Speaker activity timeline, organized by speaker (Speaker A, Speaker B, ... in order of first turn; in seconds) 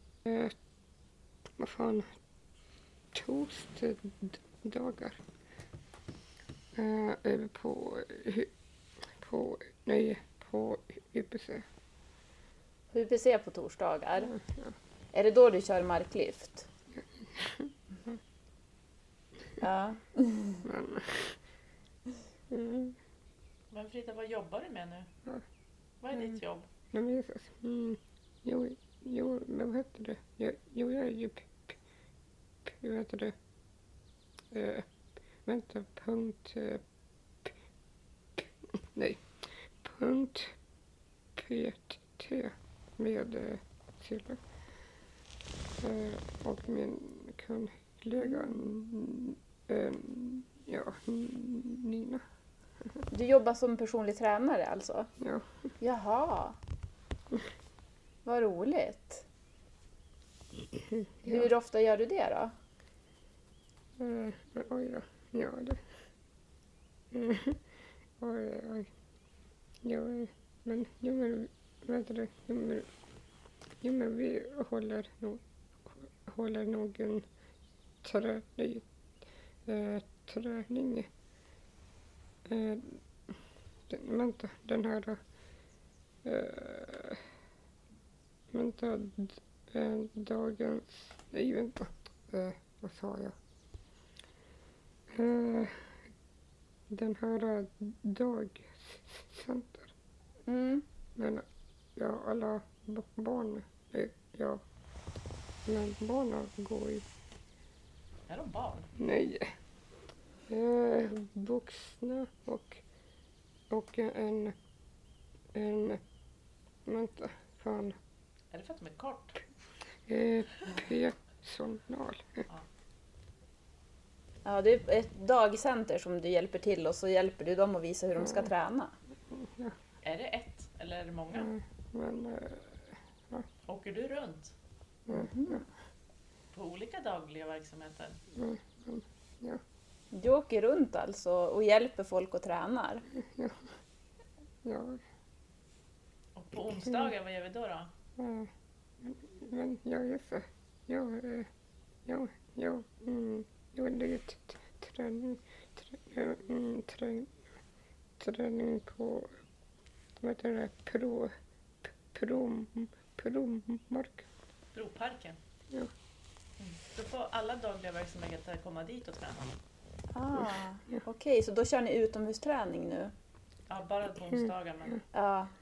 Speaker A: 0.2-0.6, 1.6-2.1, 3.1-5.2, 6.8-8.5, 9.2-11.7, 14.3-14.7, 16.9-18.2, 20.6-21.4, 22.5-23.0, 26.9-31.8, 32.7-33.4, 34.5-34.9, 35.5-36.8, 38.4-39.2, 39.8-40.5, 41.4-44.4, 45.8-52.2, 55.2-55.5, 64.0-65.8, 67.1-67.6, 68.2-68.9, 69.8-72.9, 73.8-77.3, 78.0-78.8, 79.7-81.1, 82.5-83.0, 83.9-85.2, 86.2-87.2, 88.5-93.3, 95.1-95.9, 96.9-99.9, 101.2-101.5, 102.0-104.6, 105.7-107.0, 109.0-109.5, 110.5-112.8, 113.7-114.5, 115.5-116.0, 116.9-118.0, 120.1-122.4, 128.2-128.5, 129.3-129.8, 131.3-133.5, 135.1-135.6, 138.3-139.6, 143.2-143.6, 144.6-145.0, 148.2-148.5, 149.0-151.5, 152.1-157.3, 158.2-159.3, 160.2-161.3, 162.1-164.2
Speaker B: 12.9-14.3, 15.1-16.7, 19.6-20.6, 53.1-55.1, 55.8-56.6, 58.2-59.2, 61.2-62.5, 100.5-100.8, 124.5-128.9, 135.1-135.6, 140.1-143.1, 170.1-173.1, 175.1-175.5
Speaker C: 23.7-25.1, 26.0-26.7, 108.3-108.9, 118.5-119.4, 130.0-131.5, 133.7-134.5, 136.5-138.2, 146.3-147.9, 164.7-165.4, 166.6-169.6, 173.7-175.0